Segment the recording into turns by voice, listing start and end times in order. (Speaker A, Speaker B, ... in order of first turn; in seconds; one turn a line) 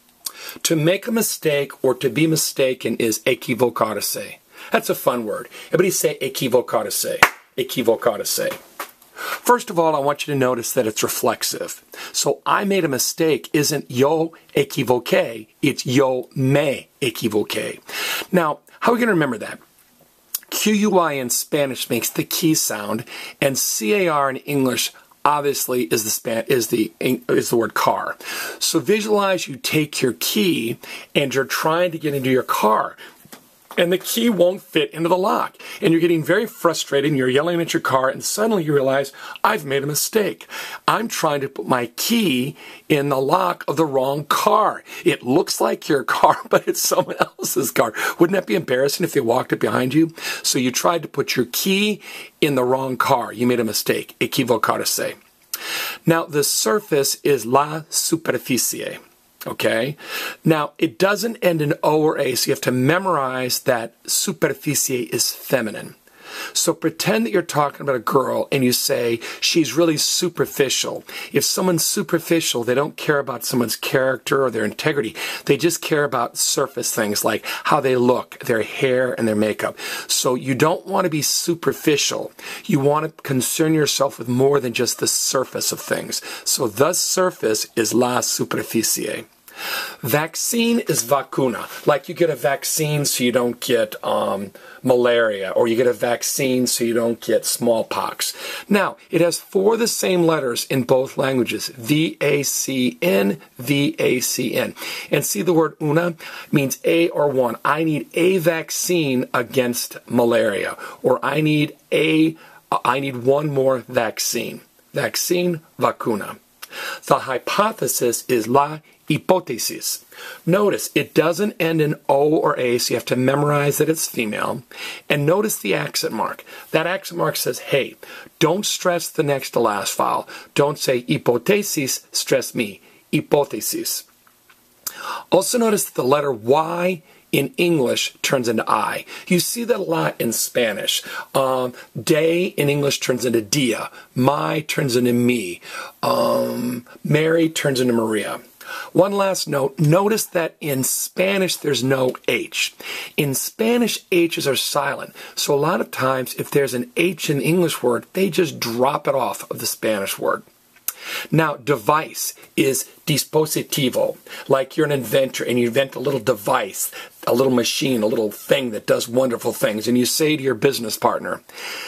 Speaker A: 0.6-8.6
Speaker A: 9.3-19.6
Speaker A: 20.5-33.0
Speaker A: 33.8-55.2
Speaker A: 56.1-66.0
Speaker A: 66.5-89.3
Speaker A: 90.0-116.4
Speaker A: 117.0-134.1
Speaker A: 135.3-148.4
Speaker A: 148.9-160.4
Speaker A: 161.3-171.4